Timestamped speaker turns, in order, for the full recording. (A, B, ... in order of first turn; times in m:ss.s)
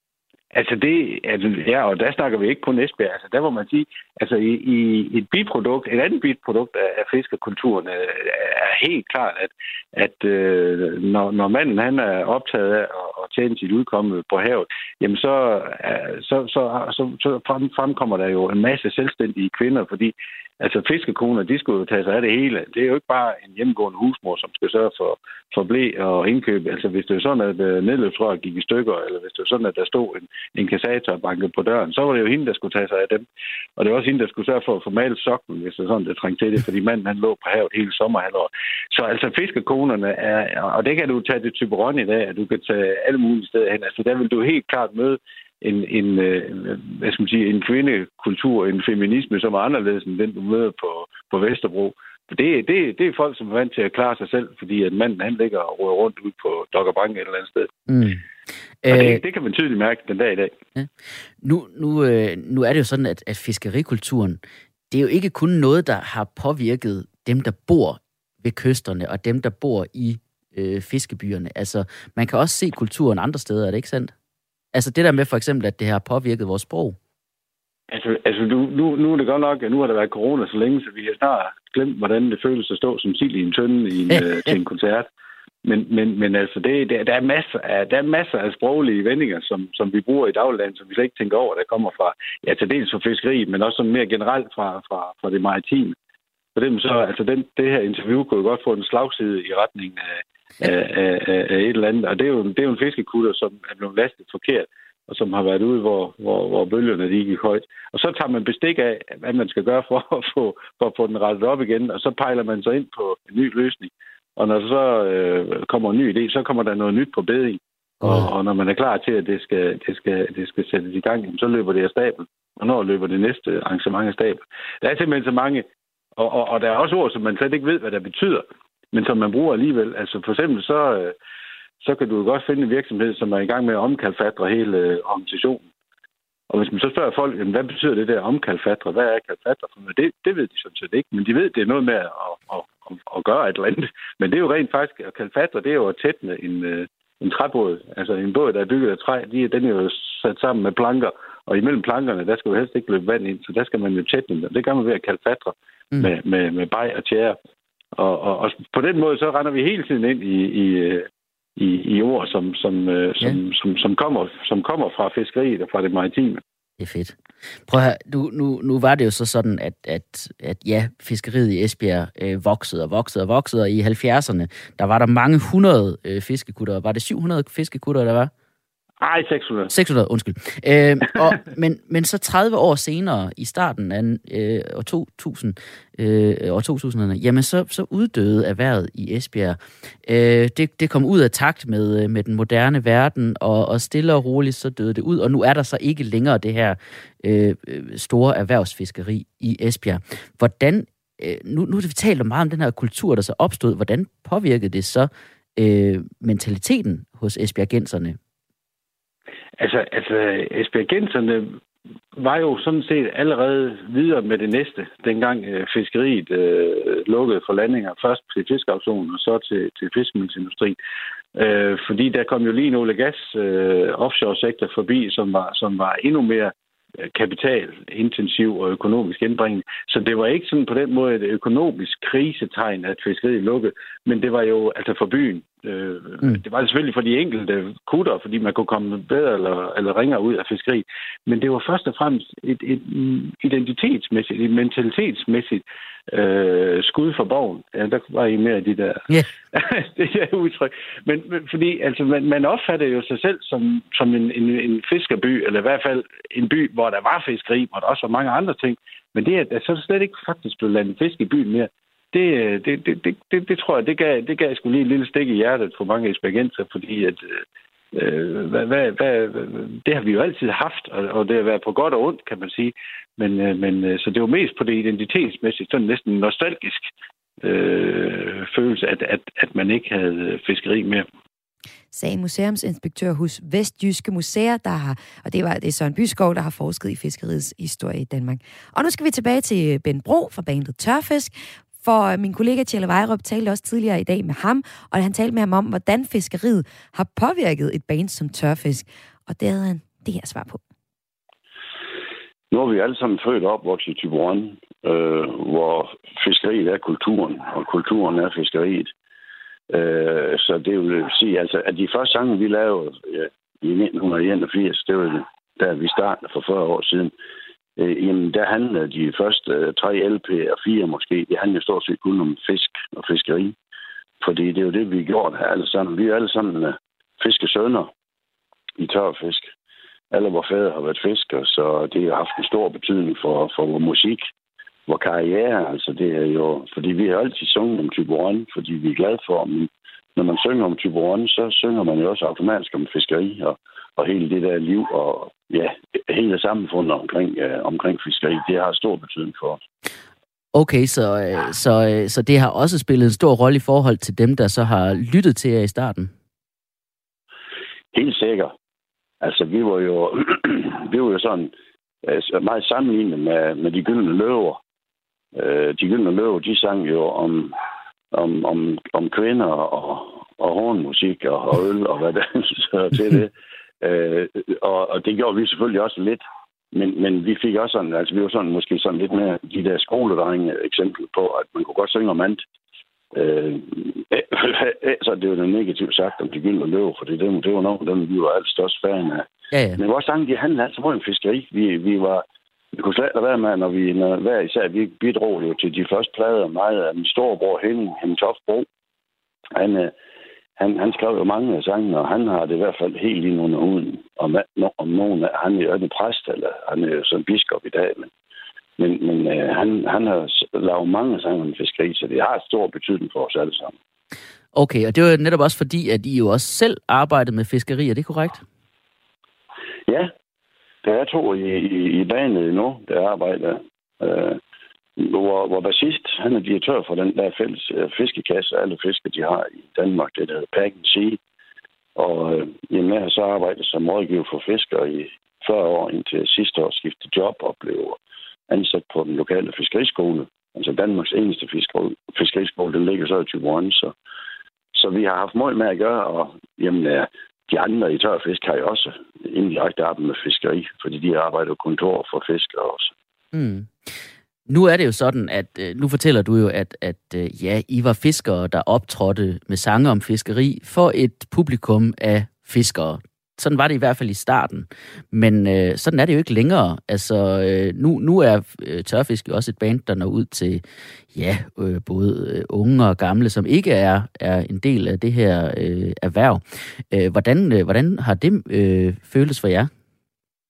0:00.5-0:33.2 A
0:33.8-0:57.7 A
0:57.9-0:58.2 B
0:58.8-0:59.2 B
0:58.9-1:00.5 A
1:00.8-1:04.4 B
1:04.9-1:14.1 B
1:14.7-1:17.0 B
1:17.9-1:25.1 A
1:24.1-1:24.5 B
1:25.6-1:36.0 A
1:36.5-2:11.1 A
1:58.0-1:58.3 B
2:11.8-2:15.7 A
2:16.5-2:37.4 A
2:38.0-2:41.0 A
2:41.6-2:46.4 A
2:46.8-2:47.2 B
2:47.7-2:58.3 B
2:59.0-2:59.7 A
2:59.7-3:28.2 B
3:29.6-3:31.6 A
3:32.2-3:40.8 A
3:41.3-3:46.5 A
3:47.1-4:27.4 A
4:27.9-4:36.8 A
4:37.4-4:41.0 A
4:41.9-5:00.6 C
5:02.5-5:08.9 D
5:09.7-5:17.1 D
5:17.8-5:23.6 D
5:24.2-5:27.9 D
5:28.8-5:29.5 D
5:30.1-5:34.2 D
5:34.9-5:49.6 D
5:50.5-5:56.1 B
5:57.9-5:58.5 D
5:59.2-6:01.5 D
6:02.0-6:04.6 D
6:05.3-6:07.6 D
6:08.1-6:16.2 D
6:16.7-6:22.4 D
6:23.1-6:38.7 D
6:29.5-6:29.8 B
6:39.5-6:39.9 D
6:40.6-6:48.1 D
6:48.8-6:53.7 D
6:54.5-6:58.4 B
7:00.8-7:04.4 D
7:05.0-7:11.2 D
7:12.0-7:23.9 D
7:24.7-7:32.9 D
7:33.3-7:33.7 B
7:34.5-7:59.7 B